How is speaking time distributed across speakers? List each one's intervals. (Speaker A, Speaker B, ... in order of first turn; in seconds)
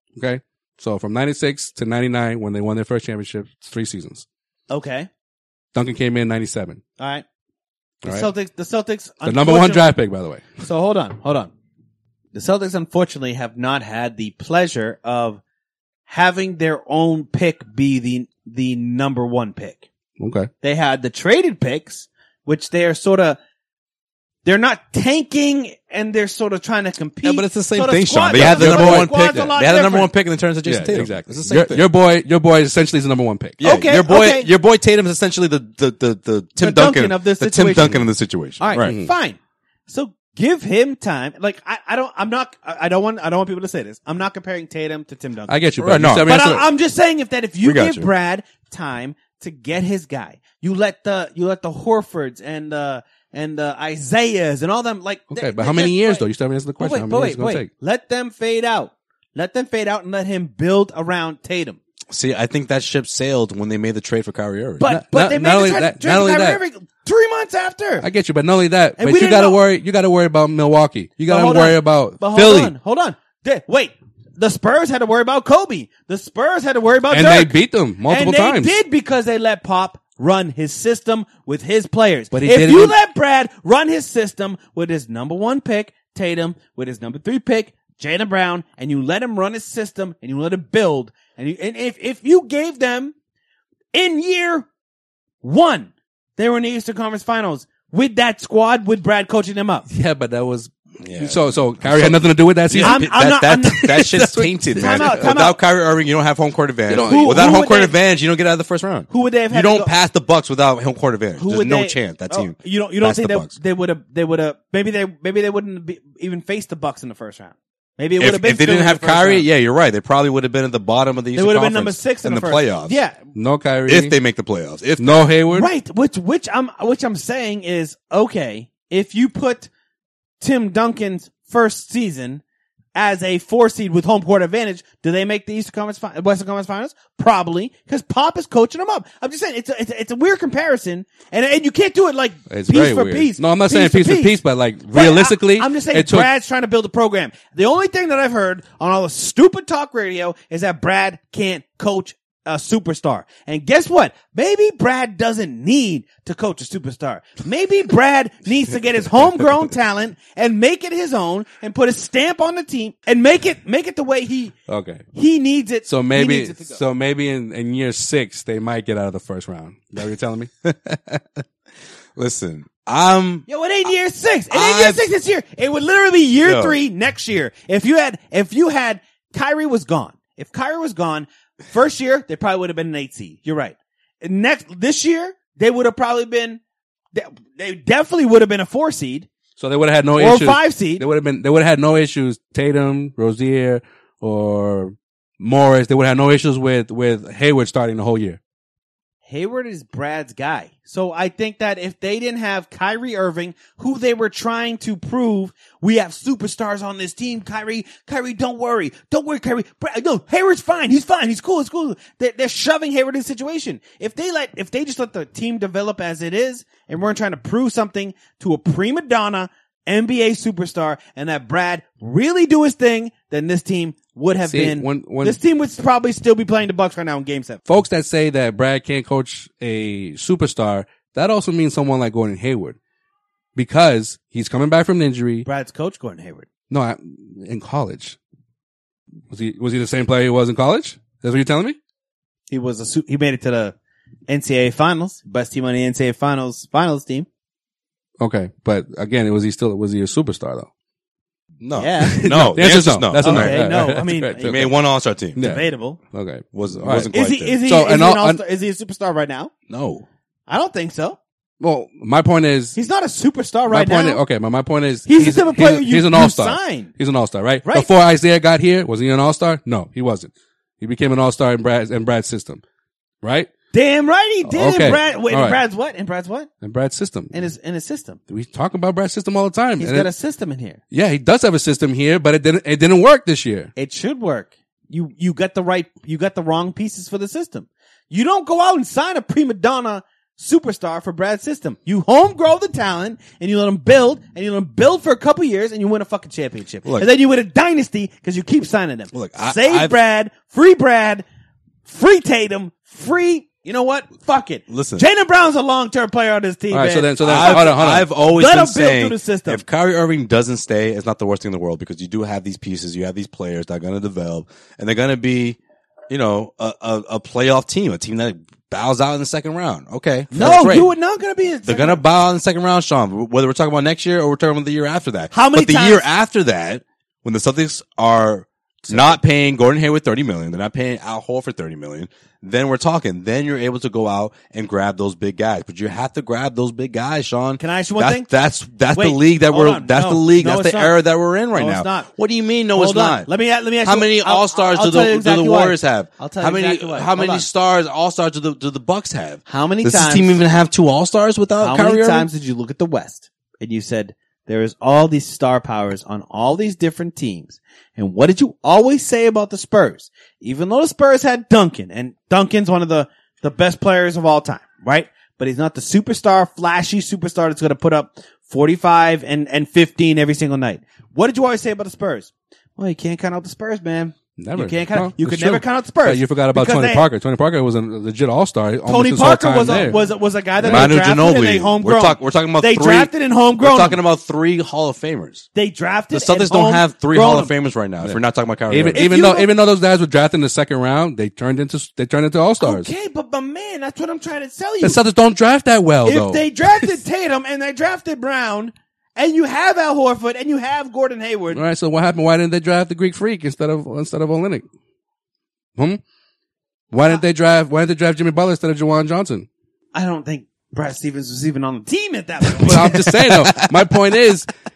Speaker A: 0.2-4.2, 5.7-6.8, 8.0-8.3, 9.2-10.4, 20.2-20.5, 28.3-29.5, 30.6-33.6, 38.8-39.1, 45.5-46.7, 55.3-57.7, 64.8-66.6, 68.0-72.7, 77.1-78.8, 82.3-83.0, 99.9-103.0, 103.8-105.3, 106.9-107.6, 123.3-124.2, 125.0-125.7, 142.5-146.3, 164.7-165.0, 165.9-170.5, 189.6-198.4, 224.4-225.4, 227.7-232.8, 233.6-235.5, 236.7-238.2, 239.3-241.8, 248.2-250.7, 252.0-254.7, 255.3-257.1, 257.6-258.4, 261.6-262.8, 263.7-272.6, 273.2-273.5, 274.4-275.6, 276.6-277.3, 278.3-280.1, 280.9-283.7, 306.7-308.1, 374.4-380.9, 388.7-392.9, 394.8-396.9, 401.5-404.6, 406.9-409.5, 412.6-414.5
Speaker B: 4.7-5.1, 7.0-7.2, 8.0-9.9, 10.6-11.5, 12.3-15.4, 16.1-19.8, 20.6-23.4, 24.4-30.1, 33.6-34.5, 36.6-38.1, 38.6-45.7, 46.2-56.2, 56.8-61.8, 64.8-68.1, 69.0-69.6, 71.3-77.5, 78.1-93.1, 93.9-94.7, 95.4-99.9, 102.8-103.9, 104.8-105.6, 107.0-107.9, 109.1-109.9, 111.4-119.4, 121.3-123.2, 125.5-129.7, 130.4-132.4, 132.9-144.3, 144.9-164.5, 165.1-166.8, 173.5-186.6, 187.1-189.3, 190.2-191.0, 199.2-227.6, 235.4-236.5, 242.5-243.7, 244.3-247.3, 251.8-252.2, 253.2-254.7, 255.4-256.0, 257.1-259.5, 260.5-261.2, 262.8-264.2, 265.1-266.9, 273.7-276.5, 277.3-278.2, 279.8-280.8, 283.8-301.2, 301.8-309.6, 320.3-322.0, 325.3-326.0, 337.6-338.3, 338.9-341.0, 341.5-342.1, 342.7-347.4, 349.5-350.4, 351.6-377.1, 378.9-384.0, 385.5-387.5, 388.9-389.5, 392.6-395.0, 396.0-401.6, 409.9-413.3
Speaker C: 27.2-31.9, 33.6-38.9, 45.8-46.5, 47.6-48.1, 62.1-64.9, 101.0-113.5, 118.2-123.0, 123.9-125.3, 170.6-171.2, 172.2-173.4, 174.5-175.0, 176.4-176.8, 251.6-253.6, 254.4-255.4, 256.5-257.6, 259.7-260.1, 299.1-300.0, 304.7-305.1, 307.2-315.6, 316.1-320.9, 321.6-343.3, 343.8-352.3, 380.6-385.4, 386.1-389.1, 413.4-413.7